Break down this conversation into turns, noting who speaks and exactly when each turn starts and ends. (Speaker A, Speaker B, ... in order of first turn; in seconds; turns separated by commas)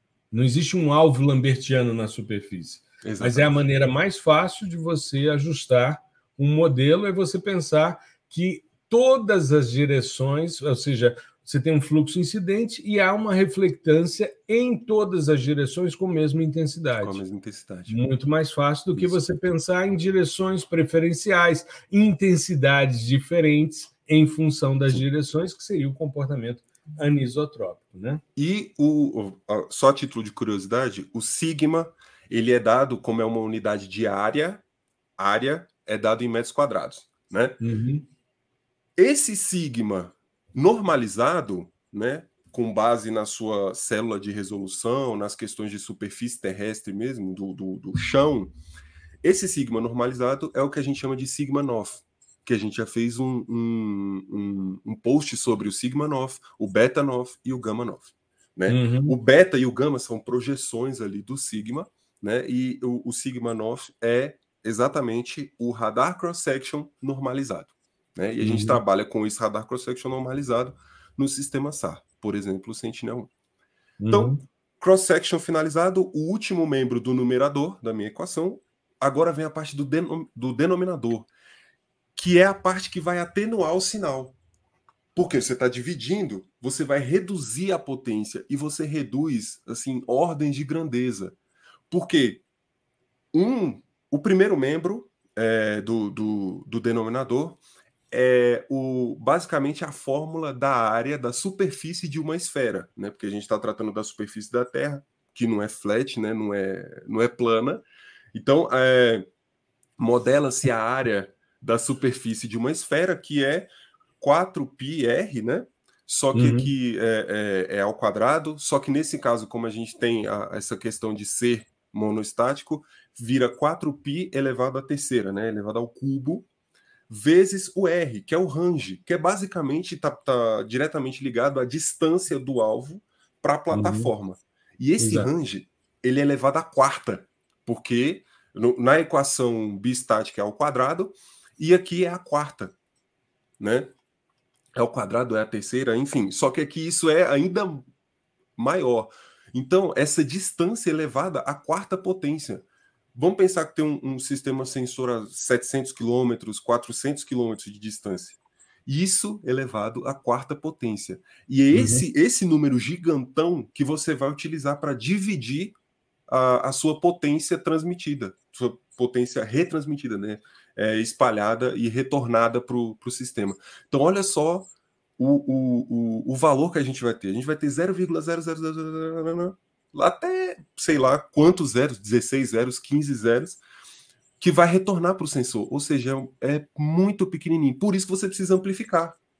Speaker A: 0.3-17.2, Speaker B: 3.0-3.6, Speaker B: 17.0-18.0, Speaker A: 17.9-28.2, Speaker B: 28.4-34.6, Speaker B: 35.2-37.6, Speaker A: 37.6-38.1, Speaker B: 39.0-48.5, Speaker B: 49.2-73.3, Speaker A: 58.7-59.1, Speaker A: 68.4-68.8, Speaker A: 74.0-74.4, Speaker B: 74.1-81.3, Speaker B: 82.2-84.4, Speaker B: 85.1-91.4, Speaker B: 91.9-92.4, Speaker B: 93.3-109.2, Speaker B: 110.0-126.5, Speaker A: 116.3-116.7, Speaker B: 127.1-142.7, Speaker A: 133.7-134.1, Speaker A: 135.0-135.3, Speaker B: 143.6-143.9, Speaker B: 144.7-147.9, Speaker B: 148.6-165.7, Speaker A: 161.7-162.0, Speaker B: 166.3-183.6, Speaker B: 184.4-189.2